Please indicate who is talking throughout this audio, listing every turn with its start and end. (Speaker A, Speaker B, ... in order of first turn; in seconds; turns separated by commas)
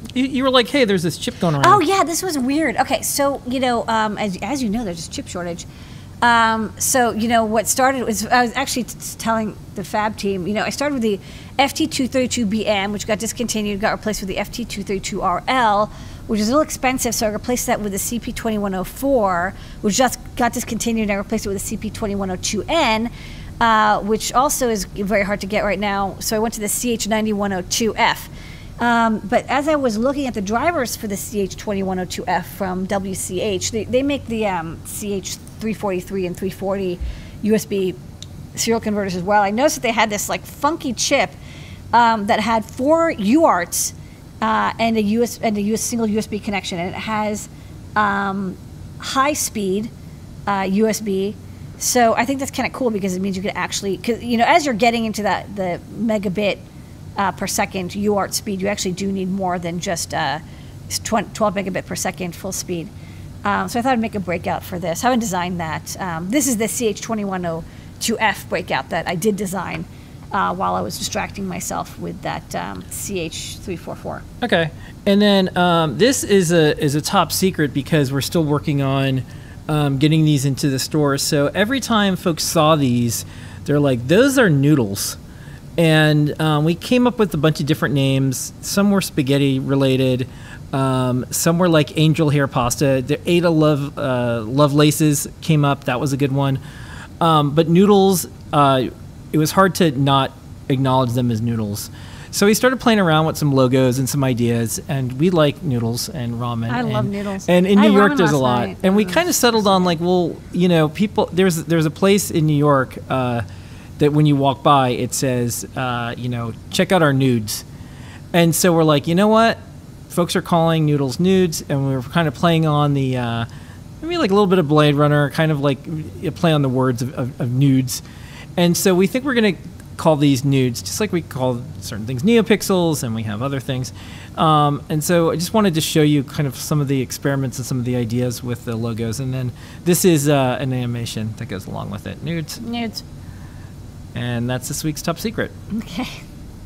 Speaker A: 0.1-1.8, Speaker B: 1.6-5.7, Speaker B: 6.2-38.0, Speaker B: 38.5-41.4, Speaker B: 41.9-49.9, Speaker B: 50.5-56.6, Speaker B: 57.2-62.9, Speaker B: 63.4-74.2, Speaker A: 74.4-85.2, Speaker A: 85.8-96.6, Speaker A: 97.2-113.5, Speaker B: 106.7-109.9, Speaker A: 114.0-117.7, Speaker A: 118.3-123.5, Speaker A: 124.0-128.0, Speaker A: 128.6-142.6, Speaker B: 142.6-143.0, Speaker A: 144.1-145.5, Speaker B: 145.7-146.2